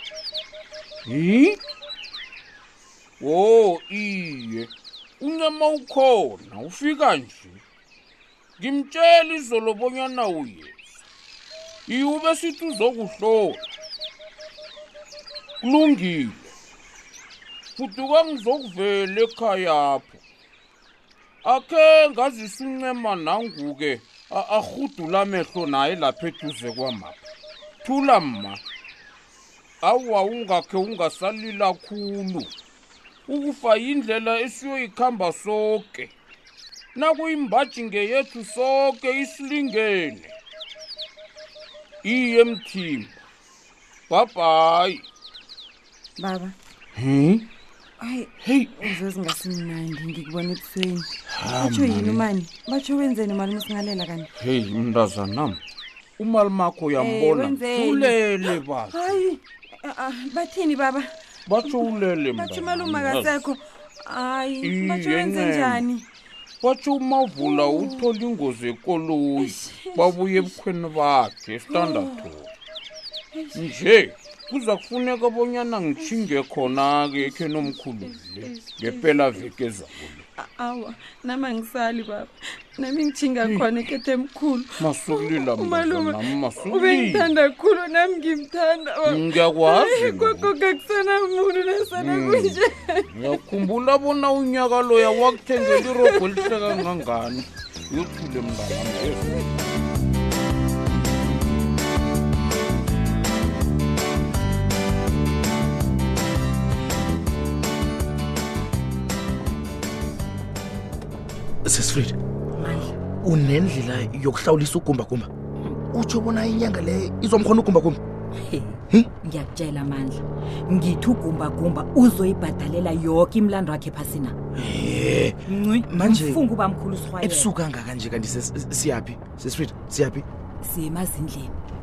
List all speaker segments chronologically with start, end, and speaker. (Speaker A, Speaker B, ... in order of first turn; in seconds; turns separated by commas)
Speaker A: 1.1-1.6, Speaker A: 3.2-7.6, Speaker A: 8.6-11.0, Speaker A: 11.9-13.6, Speaker A: 15.6-16.5, Speaker A: 17.8-20.2, Speaker A: 21.4-27.2, Speaker A: 27.8-28.6, Speaker A: 29.8-32.5, Speaker A: 33.3-36.1, Speaker A: 37.0-40.3, Speaker A: 42.0-43.1, Speaker A: 44.1-45.0, Speaker B: 46.2-46.5, Speaker A: 47.0-47.5, Speaker B: 48.0-54.3, Speaker A: 48.4-49.0, Speaker A: 51.4-52.3, Speaker A: 54.4-55.6, Speaker A: 56.2-59.2, Speaker B: 57.0-58.2, Speaker B: 58.9-61.1, Speaker A: 61.5-63.5, Speaker B: 62.4-66.0, Speaker A: 64.6-65.9, Speaker A: 66.6-72.5, Speaker B: 67.4-68.0, Speaker B: 69.4-70.6, Speaker B: 71.7-72.3, Speaker B: 73.3-73.6, Speaker A: 73.5-80.2, Speaker B: 78.5-79.1, Speaker B: 80.4-93.1, Speaker A: 83.4-83.9, Speaker A: 84.8-87.4, Speaker A: 89.0-90.6, Speaker A: 92.0-99.6, Speaker B: 95.7-96.5, Speaker C: 111.7-112.2, Speaker D: 112.5-112.9, Speaker C: 113.2-115.3, Speaker C: 115.9-118.0, Speaker D: 118.5-124.4, Speaker C: 124.9-125.4, Speaker D: 125.5-127.6, Speaker C: 125.9-126.4, Speaker C: 127.2-130.2, Speaker D: 130.6-131.5